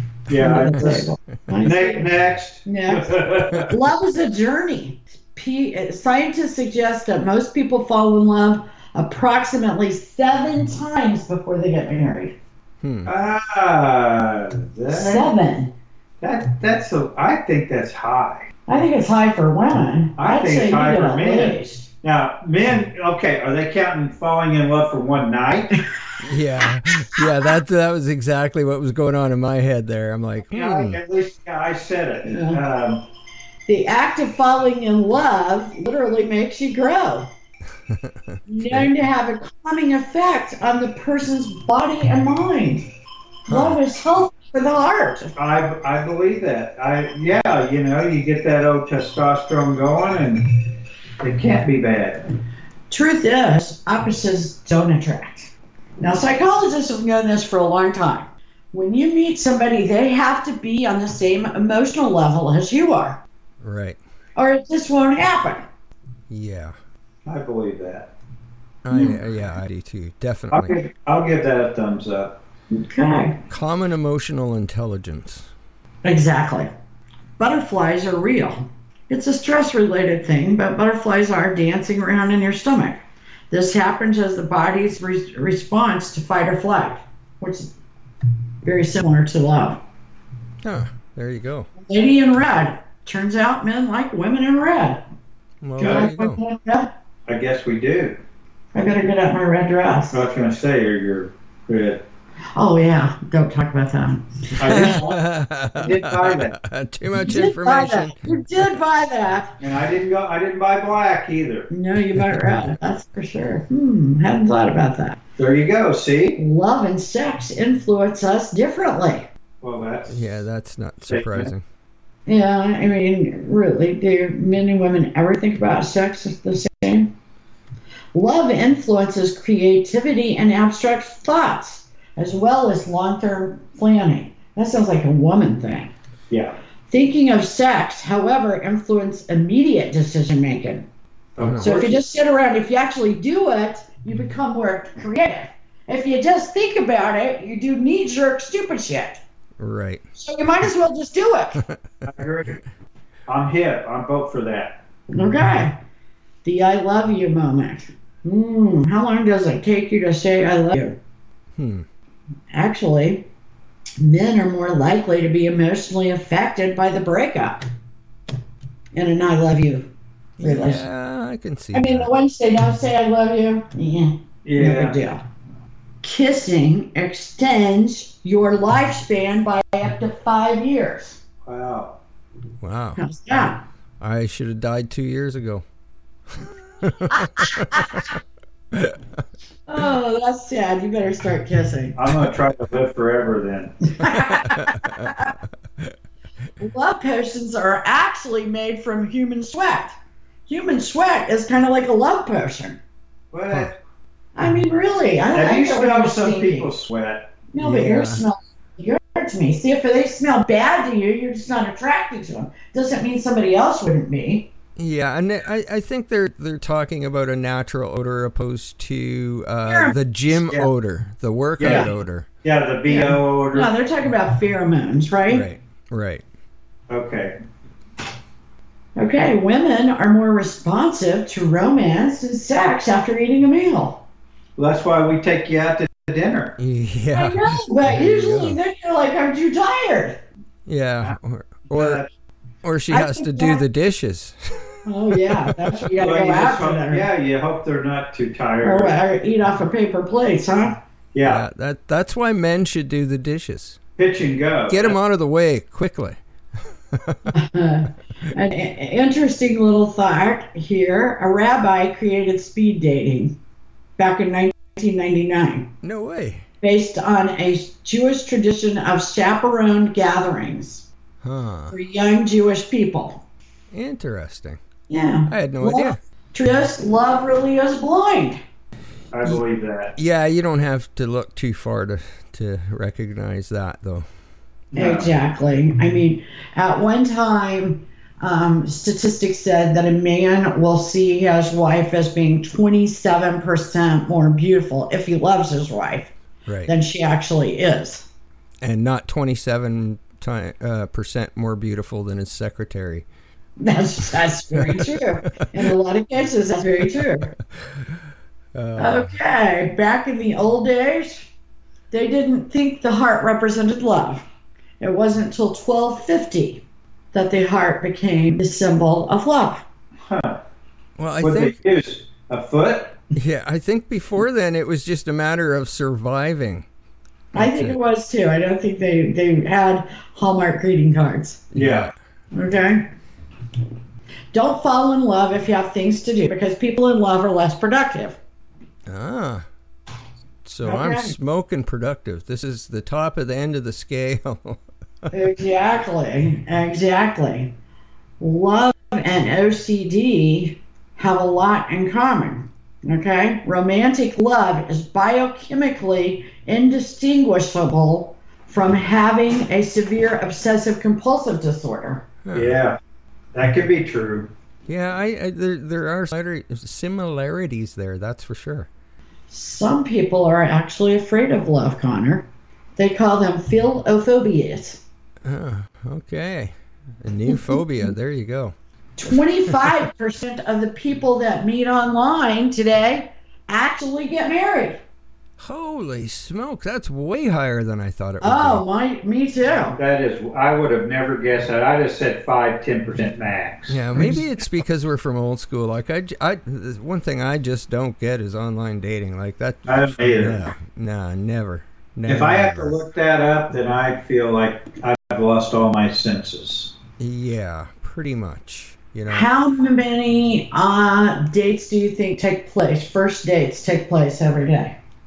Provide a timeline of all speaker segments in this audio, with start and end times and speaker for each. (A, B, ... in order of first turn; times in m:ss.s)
0:00.3-0:01.1 A
0:00.3-0:02.1 B
0:01.6-0:03.7 A
0:02.6-0:12.3 B
0:12.8-0:13.1 C
0:13.0-0:15.3 A
0:14.9-0:15.7 B
0:16.2-0:18.5 A
0:18.7-0:21.9 B
0:20.2-0:25.8 A
0:26.2-0:31.0 C
0:30.5-0:33.0 A
0:32.2-0:32.6 B
0:33.7-0:37.3 B
0:37.9-0:38.9 C
0:38.5-0:42.8 B
0:43.4-0:45.3 B
0:43.5-0:43.8 C
0:45.4-0:52.2 A
0:52.9-1:03.2 B
1:03.6-1:04.0 C
1:04.4-1:05.6 B
1:06.3-1:06.7 C
1:07.2-1:08.1 A
1:08.8-1:10.8 C
1:08.9-1:09.2 B
1:10.5-1:12.4 A
1:12.7-1:13.4 B
1:13.5-1:15.5 C
1:16.0-1:16.7 B
1:17.4-1:23.0 B
1:23.5-1:27.7 B
1:28.6-1:29.8 B
1:30.6-1:31.7 C
1:31.8-1:35.0 B
1:35.6-1:36.4 C
1:35.8-1:36.9 B
1:35.8-1:36.1 A
1:37.2-1:38.2 A
1:38.7-1:40.2 B
1:40.1-1:42.0 A
1:42.5-1:45.0 B
1:44.6-1:45.2 A
1:44.6-1:48.4 C
1:45.7-1:46.6 A
1:47.2-1:49.6 B
1:49.6-1:51.7 A
1:51.7-1:55.2 B
1:52.1-1:52.7 C
1:55.4-1:56.4 A
1:56.4-1:59.3 B
1:59.6-2:00.3 A
2:00.1-2:01.6 C
2:01.1-2:01.5 A
2:02.3-2:07.1 B
2:08.1-2:15.9 B
2:16.3-2:16.5 A
2:16.9-2:20.9 B
2:21.4-2:22.0 A
2:21.4-2:21.8 C
2:21.6-2:29.2 B
2:29.6-2:30.0 C
2:30.2-2:31.6 B
2:32.0-2:32.6 A
2:33.3-2:34.8 A
2:35.1-2:35.8 B
2:36.4-2:41.0 B
2:41.5-2:41.8 C
2:42.5-2:43.3 B
2:44.0-2:47.7 B
2:48.9-2:50.8 B
2:50.4-2:52.1 C
2:51.7-2:55.2 B
2:54.4-2:55.0 A
2:56.0-3:01.2 B
3:01.4-3:02.0 A
3:02.6-3:03.0 C
3:03.0-3:03.6 B
3:04.0-3:05.6 C
3:06.3-3:08.2 C
3:07.1-3:08.0 B
3:08.7-3:09.0 C
3:09.7-3:12.0 B
3:12.0-3:14.2 A
3:13.9-3:15.3 B
3:14.4-3:15.1 C
3:16.6-3:20.0 B
3:20.5-3:22.8 B
3:23.3-3:23.8 A
3:24.4-3:26.7 B
3:25.3-3:27.3 A
3:27.5-3:34.5 B
3:27.6-3:28.2 C
3:34.8-3:42.3 C
3:39.6-3:40.0 B
3:41.6-3:41.9 A
3:41.6-3:41.9 B
3:42.4-3:43.7 A
3:42.8-3:45.4 B
3:45.3-3:46.2 C
3:46.9-3:47.4 A
3:49.0-3:54.0 B
3:54.6-3:56.6 A
3:56.6-3:58.6 C
3:57.1-4:00.2 B
4:00.6-4:02.0 C
4:01.7-4:02.1 A
4:02.6-4:05.8 C
4:02.9-4:03.6 B
4:04.8-4:07.1 B
4:05.9-4:09.0 A
4:08.6-4:10.8 B
4:11.1-4:11.4 A
4:11.2-4:13.8 C
4:14.0-4:15.0 A
4:14.7-4:16.2 C
4:16.9-4:17.3 C
4:17.3-4:23.4 B
4:24.0-4:25.7 B
4:25.8-4:26.4 C
4:26.6-4:30.9 B
4:31.2-4:31.7 C
4:31.7-4:33.2 B
4:33.7-4:34.6 C
4:34.9-4:38.4 B
4:35.3-4:36.0 C
4:39.1-4:39.9 A
4:40.0-4:44.0 C
4:44.7-4:45.1 A
4:44.7-4:56.1 B
4:56.4-4:56.7 C
4:56.6-4:58.1 B
4:58.6-5:03.0 C
5:03.6-5:07.4 B
5:04.5-5:05.6 C
5:07.6-5:08.0 C
5:08.5-5:09.1 C
5:08.8-5:11.3 B
5:11.9-5:14.2 B
5:14.8-5:19.6 B
5:20.0-5:20.4 A
5:21.0-5:21.6 C
5:21.2-5:23.0 A
5:23.1-5:26.6 C
5:27.3-5:31.5 B
5:27.3-5:27.8 C
5:31.5-5:31.9 C
5:31.5-5:31.9 A
5:32.3-5:32.9 B
5:34.3-5:38.2 B
5:38.9-5:39.4 C
5:40.4-5:45.1 C
5:40.6-5:41.1 B
5:45.1-5:47.5 B
5:48.2-6:02.0 B
6:02.2-6:02.6 C
6:02.3-6:02.8 A
6:03.3-6:04.3 A
6:04.7-6:08.7 C
6:09.3-6:14.8 B
6:15.2-6:18.5 C
6:19.0-6:24.8 B
6:25.4-6:28.6 C
6:28.2-6:29.8 B
6:29.7-6:33.9 A
6:33.7-6:42.8 C
6:39.7-6:40.5 A
6:42.1-6:46.7 A
6:47.0-6:49.3 C
6:49.1-6:54.8 B